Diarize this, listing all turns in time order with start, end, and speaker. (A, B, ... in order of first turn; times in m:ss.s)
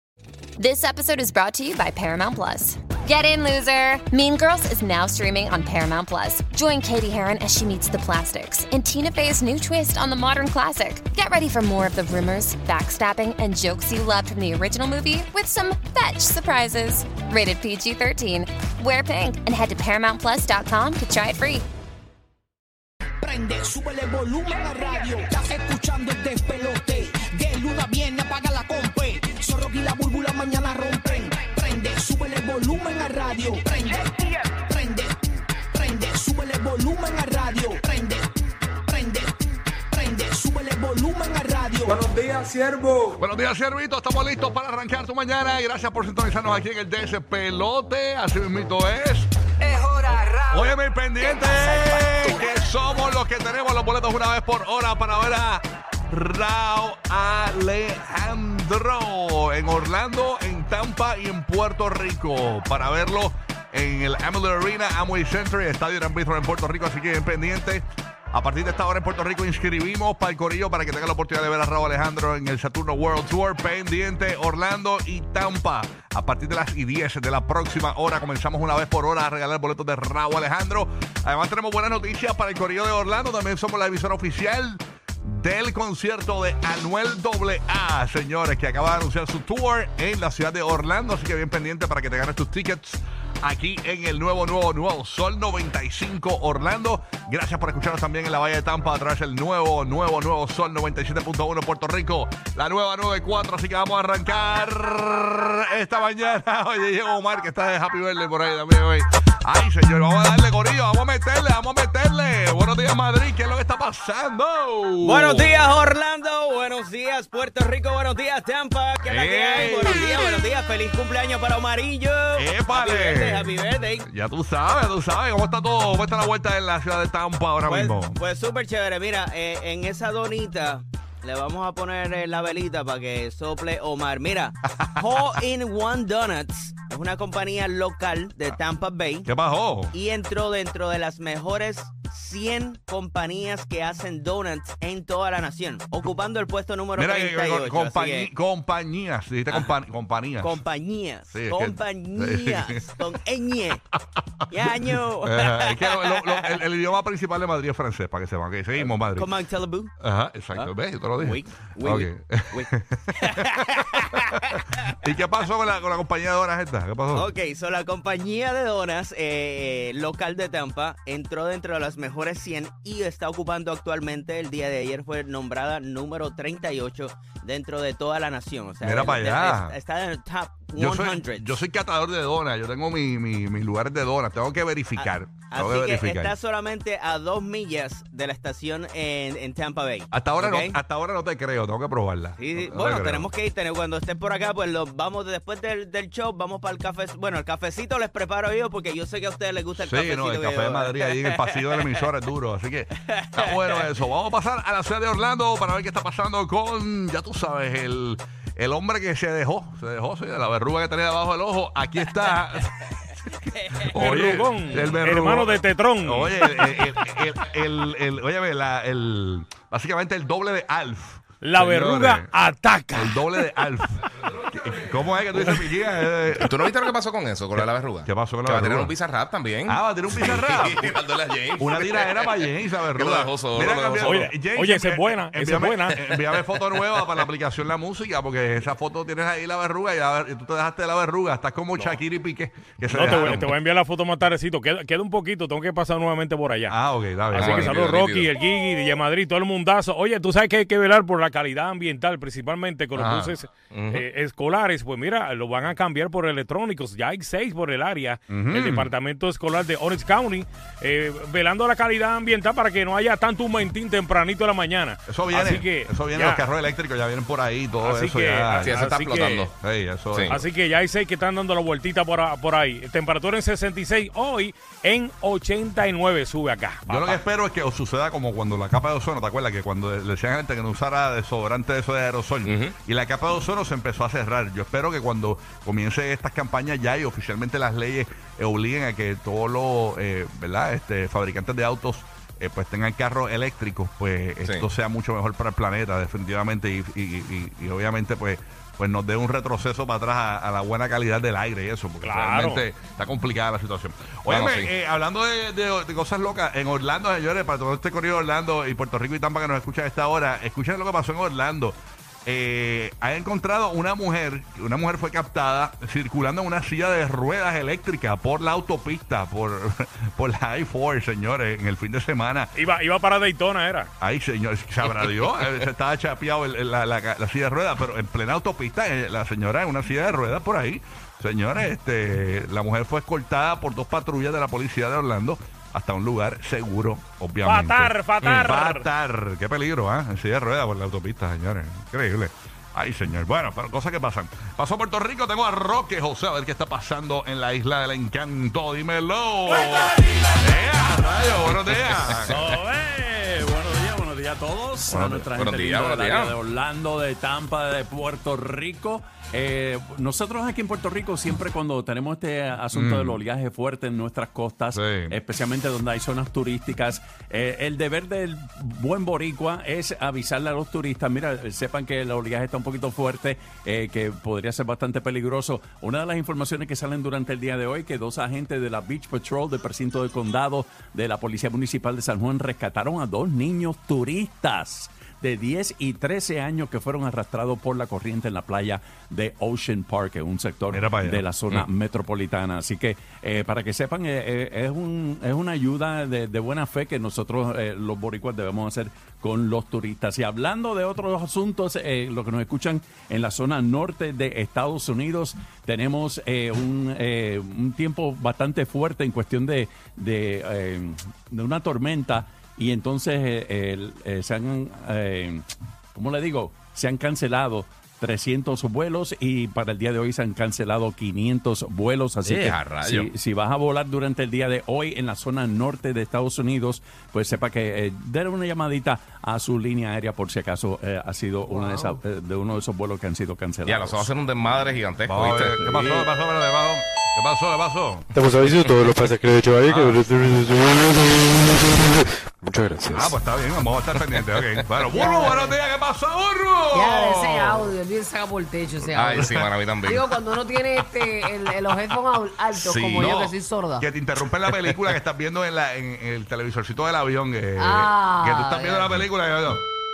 0:00.6-0:21.6 A
0:23.2-0:35.2 B
0:35.7-0:38.3 B
0:38.9-0:39.3 B
0:39.9-0:42.0 B
0:43.2-0:49.3 C
0:50.5-1:55.7 C
1:55.1-2:02.4 D
1:58.9-2:01.1 B
1:59.0-2:00.2 C
2:01.9-2:04.0 B
2:02.4-2:03.5 C
2:02.9-2:04.0 D
2:04.0-2:08.2 C
2:07.7-2:19.2 D
2:07.7-2:08.4 B
2:09.4-2:09.8 B
2:14.7-2:15.4 C
2:18.3-2:18.8 B
2:19.2-2:19.9 C
2:20.0-2:28.3 D
2:20.0-2:20.6 B
2:26.9-2:27.5 B
2:27.0-2:30.6 C
2:30.4-2:33.8 D
2:31.0-2:32.2 B
2:31.3-2:33.2 C
2:33.5-2:33.8 B
2:34.2-2:39.4 C
2:34.5-2:35.2 B
2:34.6-2:35.4 D
2:39.1-2:39.8 D
2:39.2-2:39.9 B
2:40.0-2:44.0 C
2:41.2-2:42.0 B
2:41.4-2:41.8 D
2:44.8-2:47.3 C
2:47.2-3:01.4 D
2:47.2-2:47.6 B
2:49.0-2:49.9 B
2:52.7-2:53.1 B
2:54.5-2:55.0 B
2:58.7-3:01.4 B
2:58.8-2:59.7 C
3:00.8-3:06.3 C
3:05.0-3:10.8 D
3:05.5-3:06.8 B
3:07.7-3:10.6 B
3:10.1-3:13.3 C
3:12.4-3:20.8 D
3:12.6-3:14.6 B
3:17.7-3:20.6 B
3:19.8-3:42.3 C
3:33.9-3:36.7 E
3:41.4-3:43.6 E
3:42.9-3:46.7 C
3:46.4-3:54.3 F
3:47.6-3:48.9 C
3:49.7-3:50.9 C
3:51.6-4:03.5 C
3:54.0-3:56.1 E
4:02.9-4:06.8 E
4:06.7-4:07.7 C
4:07.3-4:26.4 E
4:07.3-4:08.3 F
4:12.9-4:13.4 C
4:13.7-4:14.0 F
4:18.3-4:18.9 C
4:25.1-4:28.7 C
4:27.8-4:29.5 E
4:28.6-4:29.5 F
4:29.6-4:30.4 C
4:30.1-4:30.4 F
4:30.3-4:37.2 E
4:36.9-5:22.5 C
4:42.4-4:42.7 F
5:02.0-5:02.6 E
5:04.3-5:04.7 F
5:22.5-5:23.9 E
5:24.0-5:52.3 C
5:37.4-5:38.9 E
5:49.9-5:50.3 G
5:52.3-7:14.1 G
5:54.9-5:55.2 C
5:55.3-5:56.4 F
6:02.7-6:03.2 C
6:04.7-6:05.1 C
6:30.7-6:31.2 C
7:02.2-7:03.1 F
7:11.5-7:12.0 H
7:13.6-7:15.6 F
7:15.0-7:18.1 C
7:15.4-7:16.1 G
7:18.2-7:23.1 I
7:18.5-7:18.9 F
7:19.7-7:20.0 C
7:19.7-7:20.0 F
7:22.9-7:27.7 C
7:24.9-7:25.6 H
7:26.7-7:33.9 H
7:28.9-7:30.0 F
7:29.0-7:29.5 C
7:32.5-7:33.2 F
7:33.0-7:39.6 C
7:34.5-7:34.8 F
7:37.6-7:38.9 H